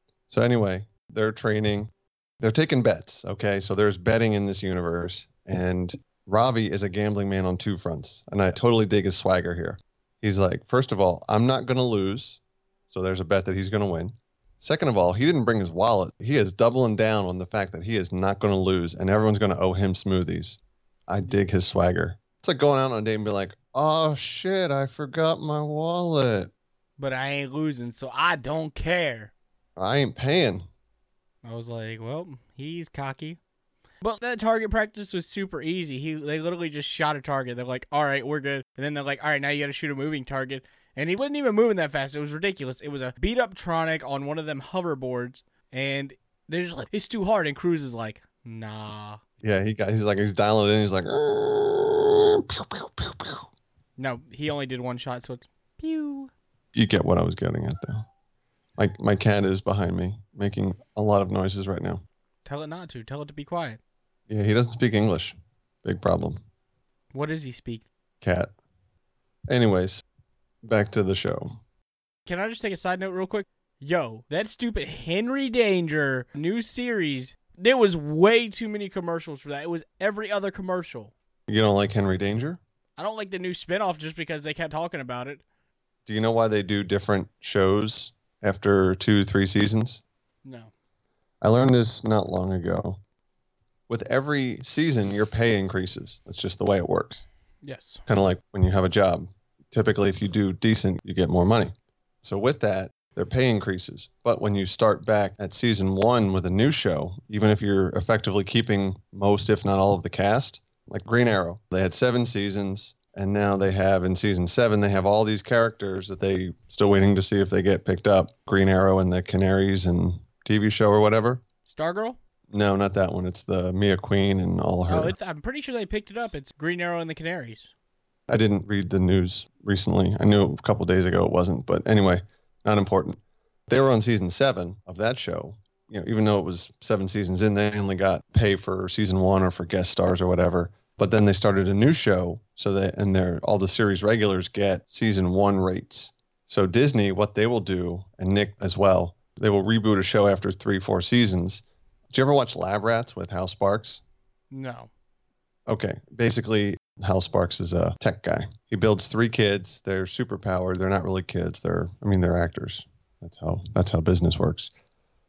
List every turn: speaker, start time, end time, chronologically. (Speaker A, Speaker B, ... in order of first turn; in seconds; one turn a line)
Speaker A: 0.3-26.5
Speaker B: 27.0-29.3
Speaker A: 29.8-30.6
Speaker B: 31.4-33.4
Speaker B: 34.0-49.2
Speaker A: 49.4-53.5
Speaker B: 54.0-56.3
Speaker A: 56.7-58.0
Speaker A: 58.8-62.0
Speaker B: 62.4-63.8
Speaker A: 64.3-66.4
Speaker B: 67.1-67.8
Speaker A: 68.2-68.5
Speaker A: 69.5-70.0
Speaker A: 70.6-71.6
Speaker B: 72.2-81.1
Speaker A: 81.5-82.6
Speaker B: 83.0-85.4
Speaker A: 86.0-90.0
Speaker B: 90.4-90.7
Speaker A: 91.4-93.0
Speaker A: 93.9-97.2
Speaker B: 97.6-98.0
Speaker A: 98.1-121.4
Speaker B: 121.6-122.2
Speaker A: 122.5-125.1
Speaker B: 124.9-127.7
Speaker A: 128.3-154.0
Speaker B: 154.5-154.9
Speaker A: 155.7-164.7